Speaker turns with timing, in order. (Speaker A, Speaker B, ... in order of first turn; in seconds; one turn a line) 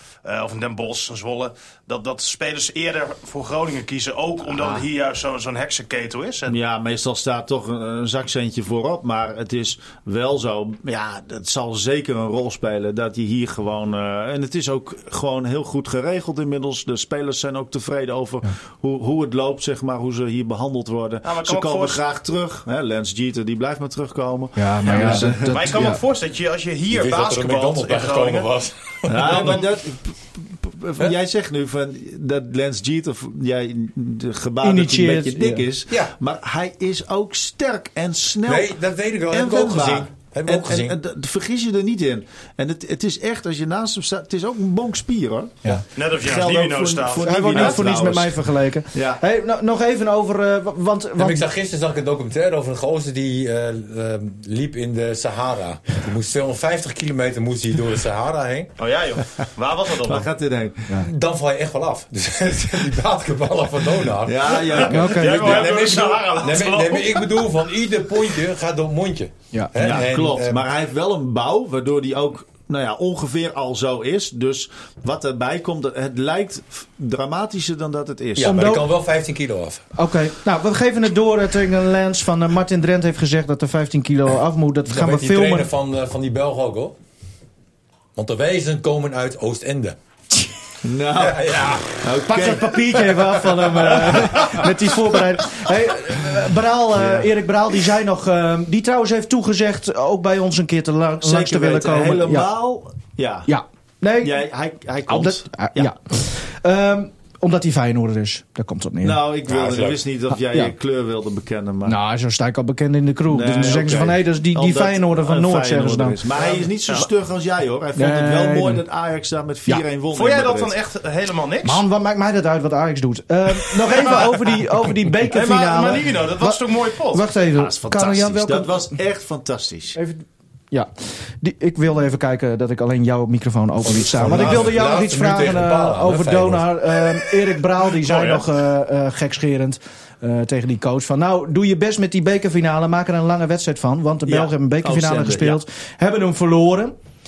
Speaker A: 0.2-6.6
Speaker B: 6.5-25.9
Speaker A: 21.2-22.0
Speaker C: 24.6-26.0
Speaker A: 24.9-28.5
Speaker D: 26.9-29.6
Speaker B: 29.1-38.7
Speaker A: 29.2-29.6
Speaker C: 34.6-35.6
Speaker D: 38.4-41.0
Speaker B: 39.3-45.6
Speaker A: 45.9-48.0
Speaker B: 46.1-48.4
Speaker C: 47.2-51.5
Speaker B: 48.9-49.2
Speaker D: 51.2-58.7
Speaker A: 58.8-60.3
Speaker B: 60.0-61.0
Speaker D: 61.0-70.6
Speaker B: 64.2-65.6
Speaker C: 64.8-65.6
Speaker A: 65.0-67.5
Speaker B: 69.8-78.8
Speaker D: 78.3-79.8
Speaker C: 78.4-78.9
Speaker C: 79.9-85.7
Speaker D: 84.9-87.0
Speaker D: 88.1-90.0
Speaker B: 90.8-94.6
Speaker D: 91.1-92.1
Speaker C: 92.3-102.5
Speaker B: 96.9-97.3
Speaker B: 101.2-103.5
Speaker C: 103.5-104.4
Speaker B: 104.2-105.9
Speaker C: 105.1-109.2
Speaker B: 109.0-112.0
Speaker D: 109.5-110.0
Speaker C: 110.3-110.7
Speaker C: 111.8-116.2
Speaker B: 113.3-120.7
Speaker A: 116.4-117.1
Speaker C: 118.0-118.8
Speaker A: 120.1-121.8
Speaker C: 121.6-128.8
Speaker A: 123.9-124.3
Speaker A: 125.3-127.2
Speaker B: 127.5-130.0
Speaker C: 129.9-130.9
Speaker C: 131.4-146.9
Speaker D: 133.8-136.8
Speaker B: 134.2-134.6
Speaker A: 138.0-138.4
Speaker B: 144.3-145.6